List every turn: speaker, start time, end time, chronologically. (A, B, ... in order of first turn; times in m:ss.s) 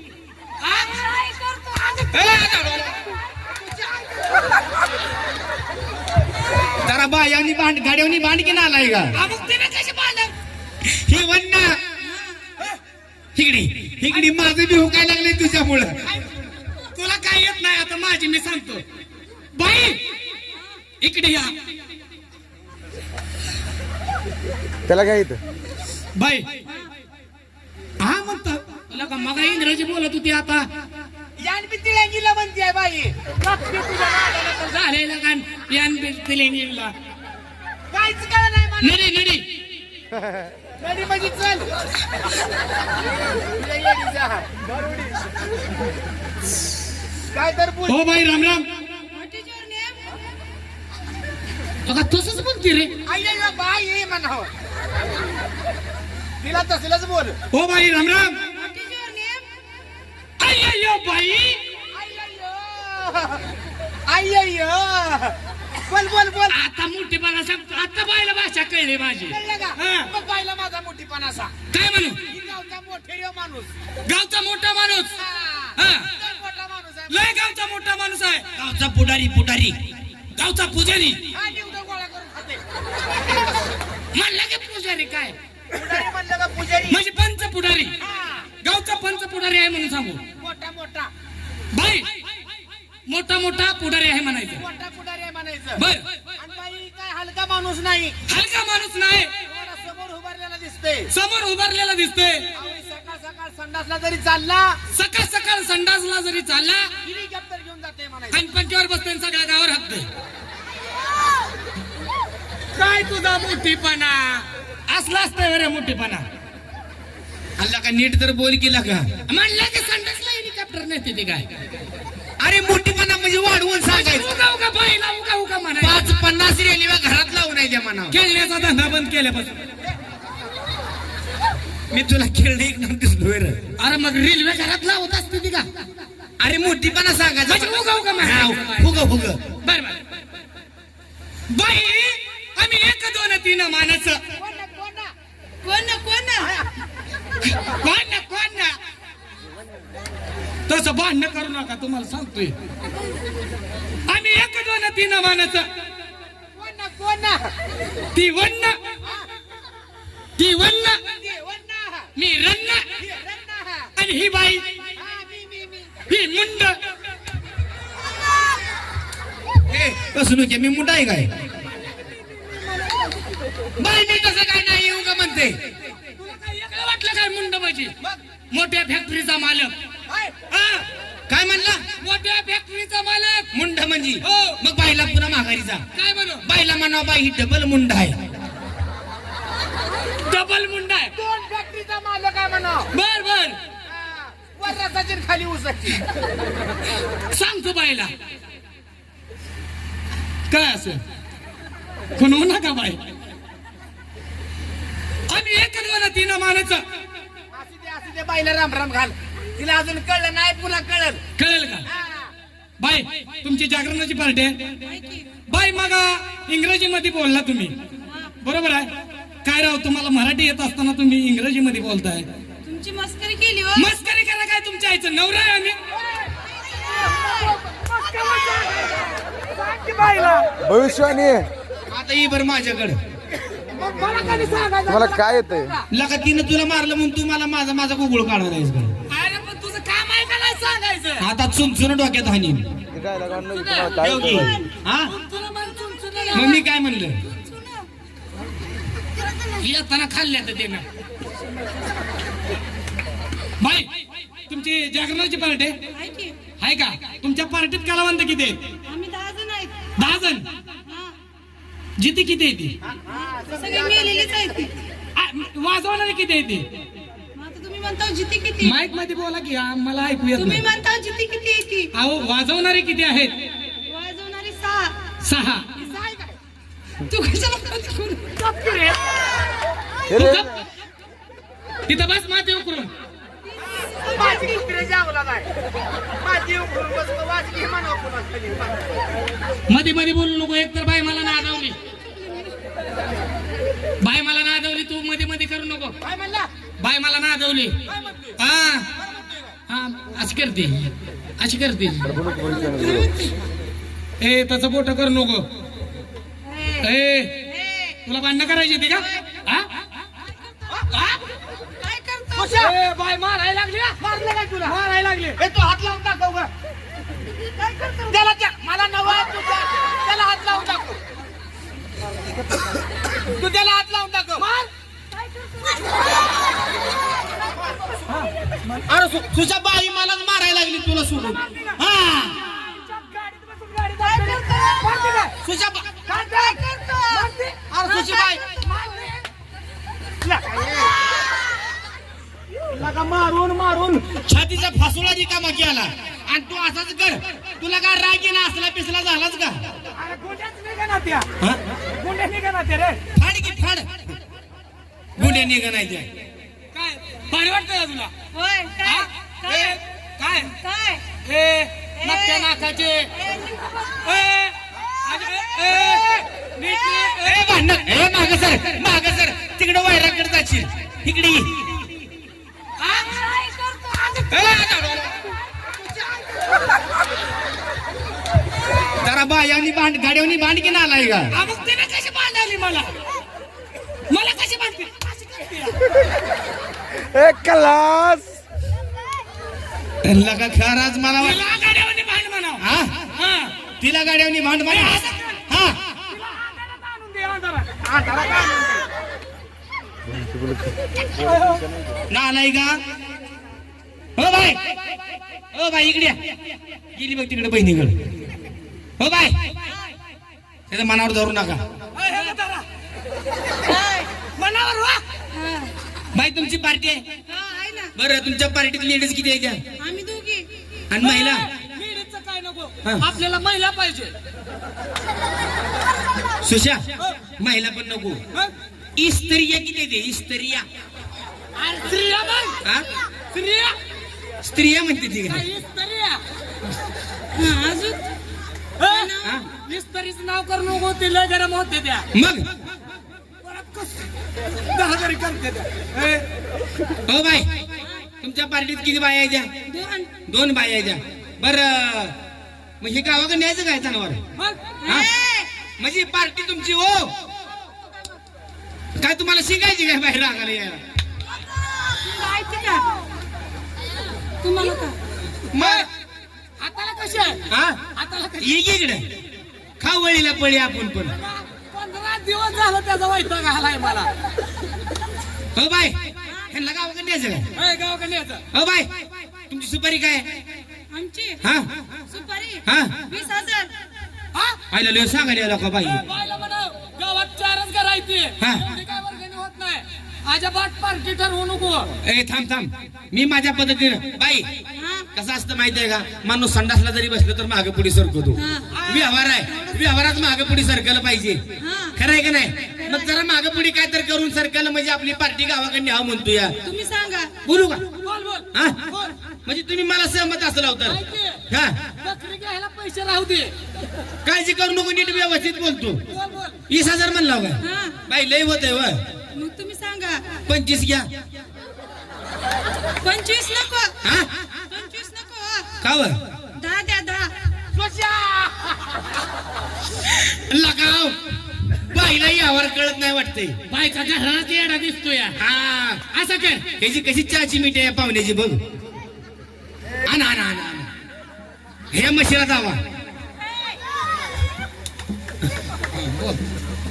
0:00.8-0:02.3 A
0:02.1-0:02.9 B
0:02.1-0:02.9 C
0:06.8-0:09.2 B
0:09.1-0:10.3 C
0:10.8-0:11.8 B
0:12.0-0:12.4 A
0:13.3-0:16.0 B
0:16.9-0:18.8 C
0:19.6-0:20.0 C
0:21.0-0:21.5 C
0:24.9-0:25.4 D
0:26.2-0:26.5 C
0:28.0-0:30.7 C
0:31.4-0:33.2 B
0:33.4-0:36.9 C
0:37.9-0:39.0 B
0:38.8-0:39.4 C
0:40.8-0:41.7 B
0:43.4-0:44.5 B
0:47.3-0:48.0 B
0:47.9-0:48.7 C
0:49.1-0:50.0 A
0:51.8-0:52.9 C
0:53.0-0:54.5 B
0:56.4-0:57.4 B
0:57.5-0:58.4 C
0:58.5-0:59.4 A
1:00.4-1:01.6 C
1:01.9-1:03.5 B
1:04.1-1:06.6 B
1:06.5-1:10.1 C
1:09.3-1:11.6 B
1:11.7-1:12.2 C
1:12.2-1:13.7 B
1:14.0-1:15.1 C
1:15.1-1:17.4 B
1:15.8-1:16.1 C
1:17.1-1:18.4 C
1:18.6-1:19.8 B
1:20.4-1:21.2 C
1:21.3-1:23.4 B
1:24.1-1:25.3 C
1:25.7-1:27.0 B
1:26.9-1:27.9 C
1:28.0-1:28.5 B
1:28.6-1:30.2 C
1:30.4-1:31.1 B
1:31.7-1:32.1 C
1:33.1-1:34.6 C
1:34.6-1:35.8 B
1:35.8-1:36.0 C
1:36.4-1:38.2 B
1:38.3-1:39.3 C
1:39.4-1:41.1 B
1:41.1-1:42.5 C
1:42.5-1:44.8 B
1:44.9-1:46.9 C
1:47.0-1:48.5 B
1:48.3-1:50.1 C
1:52.8-1:56.2 C
1:57.6-1:59.1 B
1:59.3-2:01.5 C
2:02.4-2:04.4 B
2:03.8-2:06.2 C
2:05.8-2:08.2 B
2:08.1-2:09.5 C
2:11.9-2:13.6 B
2:13.8-2:15.7 C
2:16.4-2:19.4 B
2:17.5-2:19.0 C
2:19.6-2:20.0 C
2:21.5-2:24.2 C
2:24.3-2:25.1 B
2:25.6-2:26.5 A
2:27.5-2:28.8 C
2:30.7-2:32.5 C
2:34.1-2:35.7 C
2:36.6-2:37.5 B
2:38.1-2:38.8 C
2:40.4-2:41.0 C
2:40.9-2:42.1 B
2:42.2-2:42.8 C
2:43.0-2:43.9 B
2:44.0-2:44.6 C
2:44.9-2:46.0 B
2:46.1-2:46.8 C
2:49.7-2:51.3 B
2:53.8-2:55.6 B
2:56.2-2:57.9 C
2:58.5-3:00.8 C
3:01.3-3:01.8 B
3:02.0-3:03.5 C
3:03.5-3:05.8 B
3:04.2-3:04.6 C
3:06.0-3:06.4 C
3:06.4-3:08.2 B
3:10.2-3:11.1 C
3:11.1-3:12.9 B
3:12.9-3:13.6 C
3:13.8-3:16.0 B
3:17.3-3:18.1 C
3:20.5-3:21.0 C
3:22.2-3:23.0 C
3:25.3-3:26.8 C
3:27.5-3:31.2 B
3:31.4-3:31.8 C
3:31.8-3:32.3 B
3:32.8-3:34.6 C
3:34.8-3:35.3 A
3:35.5-3:37.7 C
3:38.0-3:38.3 A
3:38.4-3:38.9 C
3:39.4-3:42.3 C
3:42.6-3:43.9 A
3:43.8-3:45.8 C
3:46.5-3:47.5 A
3:47.1-3:49.0 C
3:49.6-3:51.0 C
3:50.7-3:51.5 D
3:51.9-3:53.0 B
3:53.7-3:55.8 C
3:55.0-3:55.5 D
3:55.9-3:58.9 B
3:59.1-4:01.3 C
4:01.2-4:02.7 B
4:03.0-4:04.5 D
4:03.3-4:04.5 C
4:04.0-4:05.1 B
4:05.1-4:06.6 C
4:05.9-4:06.6 A
4:06.3-4:07.2 B
4:07.3-4:07.8 A
4:09.6-4:10.8 C
4:13.6-4:13.9 C
4:14.5-4:15.8 C
4:15.9-4:16.4 A
4:16.6-4:18.6 C
4:18.8-4:20.0 A
4:20.0-4:20.4 C
4:20.8-4:21.1 A
4:22.0-4:22.8 C
4:22.8-4:24.5 B
4:23.5-4:24.7 A
4:25.2-4:26.6 C
4:27.3-4:28.8 A
4:28.6-4:30.6 C
4:30.4-4:31.9 A
4:31.9-4:33.3 C
4:33.9-4:35.0 A
4:35.2-4:35.7 C
4:35.8-4:36.3 B
4:37.0-4:38.3 A
4:38.4-4:39.2 C
4:40.1-4:40.6 C
4:41.9-4:42.9 C
4:43.9-4:45.5 B
4:43.9-4:44.3 A
4:46.2-4:48.8 B
4:49.7-4:51.8 C
4:54.0-4:56.0 C
4:56.0-4:56.5 B
4:56.8-4:57.8 C
4:57.9-4:58.3 B
4:58.4-4:58.9 C
4:59.0-4:59.5 B
4:59.7-5:03.1 C
5:04.2-5:05.4 C
5:06.4-5:06.9 A
5:06.8-5:07.3 C
5:07.4-5:08.0 A
5:08.0-5:09.7 C
5:10.8-5:11.2 C
5:11.8-5:12.7 A
5:12.4-5:12.7 B
5:12.5-5:14.0 C
5:14.0-5:14.8 B
5:14.6-5:15.4 C
5:15.4-5:16.5 B
5:17.6-5:18.0 A
5:17.9-5:21.0 B
5:23.2-5:24.5 B
5:24.4-5:24.7 C
5:25.2-5:25.9 A
5:28.1-5:28.8 C
5:28.9-5:32.3 B
5:32.4-5:35.3 C
5:34.0-5:35.2 A
5:35.4-5:36.0 B
5:36.1-5:37.3 A
5:36.1-5:37.6 C
5:37.7-5:38.4 B
5:37.8-5:38.6 A
5:38.6-5:39.2 C
5:40.3-5:40.8 B
5:42.7-5:49.6 B
5:50.0-5:51.3 C
5:52.0-5:53.0 C
5:53.1-5:53.9 B
5:55.2-5:56.1 B
5:55.2-5:55.5 C
5:56.7-5:58.1 C
5:58.3-5:59.8 A
5:58.8-6:00.5 C
6:00.6-6:01.0 A
6:01.2-6:03.1 C
6:02.0-6:02.5 A
6:03.1-6:03.9 A
6:04.0-6:07.5 C
6:07.1-6:11.7 B
6:12.9-6:14.5 A
6:14.2-6:15.1 C
6:14.3-6:15.1 B
6:19.0-6:21.3 B
6:21.3-6:22.9 C
6:24.1-6:25.9 C
6:27.1-6:28.3 D
6:30.0-6:31.4 B
6:31.2-6:33.5 C
6:32.6-6:32.9 B
6:33.8-6:35.8 B
6:34.7-6:35.4 C
6:36.3-6:38.6 C
6:38.0-6:38.3 B
6:41.2-6:41.6 C
6:42.1-6:42.8 B
6:44.2-6:44.6 B
6:45.5-6:46.2 B
6:47.0-6:48.0 B
6:49.0-6:49.4 B
6:50.7-6:51.6 B
6:52.0-6:52.6 C
6:53.6-6:54.0 A
6:54.4-6:55.0 C
6:55.3-6:55.7 A
6:56.1-6:57.0 B
6:57.3-6:57.9 A
6:58.0-6:59.6 B
6:59.8-7:00.5 A
7:00.9-7:01.5 B
7:01.0-7:04.1 C
7:06.4-7:06.8 B
7:07.4-7:08.2 B
7:09.0-7:10.6 B
7:11.6-7:12.6 C
7:13.3-7:13.7 C
7:14.4-7:15.4 B
7:15.3-7:16.2 C
7:17.3-7:18.0 A
7:18.8-7:22.1 C
7:18.8-7:19.4 A
7:22.1-7:22.4 B
7:23.4-7:24.0 C
7:24.7-7:26.2 C
7:27.0-7:27.5 B
7:28.2-7:29.5 B
7:29.7-7:30.1 A
7:30.3-7:32.2 B
7:32.8-7:34.2 B
7:34.8-7:35.5 A
7:35.8-7:37.1 B
7:39.0-7:40.8 B
7:41.7-7:42.8 A
7:44.4-7:45.0 A
7:45.5-7:45.8 B
7:45.6-7:45.9 C
7:46.6-7:48.6 C
7:47.5-7:47.8 B
7:48.4-7:49.0 B
7:49.8-7:51.1 B
7:51.2-7:54.1 C
7:55.5-7:56.0 B
7:56.5-7:57.4 B
7:57.6-7:58.4 C
7:58.5-7:58.9 B
7:59.5-8:00.3 B
8:00.9-8:01.4 A
8:01.4-8:01.7 B
8:02.1-8:03.7 A
8:02.6-8:02.9 B
8:04.7-8:06.0 B
8:05.8-8:11.9 C
8:08.4-8:08.6 B
8:12.0-8:14.5 B
8:14.7-8:15.1 A
8:15.1-8:21.4 B
8:18.4-8:18.7 A
8:18.7-8:19.4 C
8:21.6-8:22.0 A
8:21.9-8:26.6 B
8:22.8-8:23.1 A
8:26.6-8:27.3 A
8:27.4-8:27.8 B
8:27.9-8:29.1 C
8:28.5-8:28.8 B
8:29.4-8:31.8 B
8:30.8-8:31.4 C
8:32.0-8:33.5 C
8:34.2-8:36.0 B
8:36.1-8:36.6 C
8:36.7-8:39.0 B
8:37.6-8:38.0 A
8:39.3-8:40.2 A
8:40.5-8:41.1 B
8:43.0-8:44.0 A
8:44.0-8:44.3 B
8:44.6-8:45.7 A
8:45.8-8:46.2 B
8:46.6-8:47.3 A
8:47.7-8:49.0 B
8:50.0-8:51.2 B
8:51.7-8:53.6 B
8:53.7-8:55.4 C
8:55.4-8:56.0 B
8:56.1-8:56.7 C
8:56.7-8:58.6 B
9:00.0-9:00.9 B
9:01.9-9:02.8 B
9:06.0-9:06.4 C